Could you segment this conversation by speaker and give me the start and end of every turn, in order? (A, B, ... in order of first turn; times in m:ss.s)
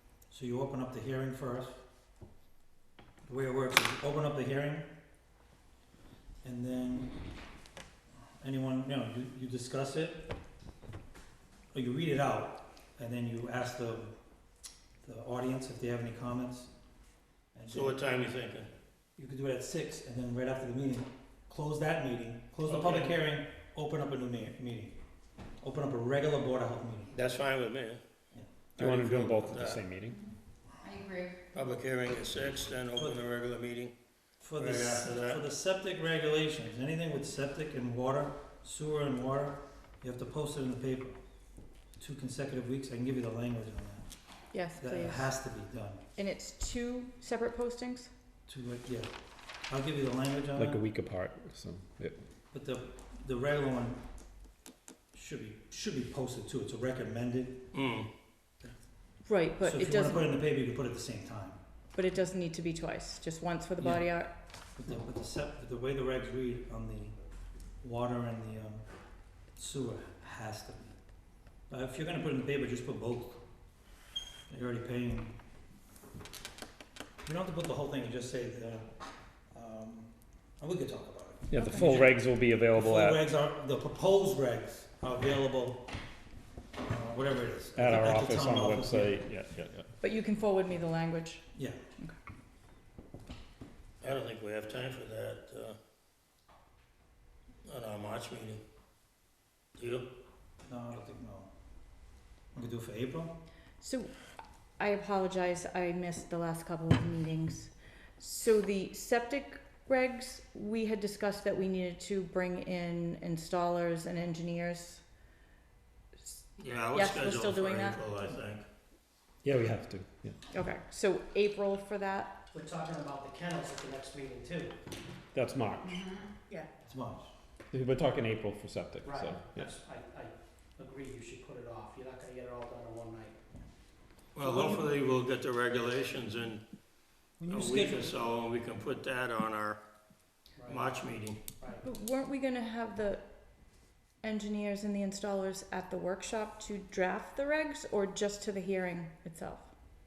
0:00.3-0:01.8 A
0:03.2-0:04.9 A
0:06.4-0:07.1 A
0:08.4-0:10.2 A
0:11.7-0:14.1 A
0:15.0-0:16.7 A
0:17.5-0:18.0 A
0:17.7-0:18.7 B
0:19.2-0:24.9 A
0:22.6-0:23.1 B
0:25.6-0:27.2 A
0:27.1-0:28.0 B
0:28.8-0:29.8 B
0:28.8-0:30.2 C
0:31.5-0:33.9 B
0:32.9-0:33.2 A
0:34.4-0:41.2 A
0:34.6-0:35.4 B
0:42.0-0:44.1 A
0:44.5-0:45.3 D
0:44.8-0:46.0 A
0:46.2-0:48.1 D
0:48.5-0:49.1 A
0:49.7-0:50.8 A
0:50.6-0:52.2 C
0:52.5-0:54.0 A
0:55.1-0:57.7 A
0:57.7-0:58.1 B
0:59.2-1:00.3 D
0:59.6-1:01.6 A
1:01.9-1:04.3 D
1:03.8-1:07.2 A
1:07.8-1:08.8 A
1:09.6-1:11.0 A
1:11.7-1:13.4 A
1:14.5-1:15.3 A
1:17.2-1:18.9 A
1:19.5-1:25.9 A
1:21.5-1:23.2 C
1:26.8-1:29.2 A
1:27.8-1:29.9 C
1:30.0-1:32.1 D
1:34.0-1:35.8 B
1:37.6-1:38.6 B
1:39.8-1:40.1 B
1:40.7-1:41.5 A
1:42.5-1:43.3 A
1:43.8-1:44.1 D
1:44.8-1:55.0 D
1:56.6-1:58.6 B
1:56.9-1:58.0 D
1:59.4-2:00.4 C
2:00.5-2:02.4 D
2:02.5-2:04.8 E
2:05.3-2:06.0 C
2:06.8-2:07.3 A
2:07.7-2:09.7 C
2:09.0-2:13.4 E
2:14.3-2:16.6 B
2:14.4-2:14.8 E
2:17.4-2:18.2 A
2:17.5-2:19.8 B
2:20.6-2:21.8 E
2:20.6-2:21.5 B
2:21.8-2:23.2 D
2:24.2-2:29.7 D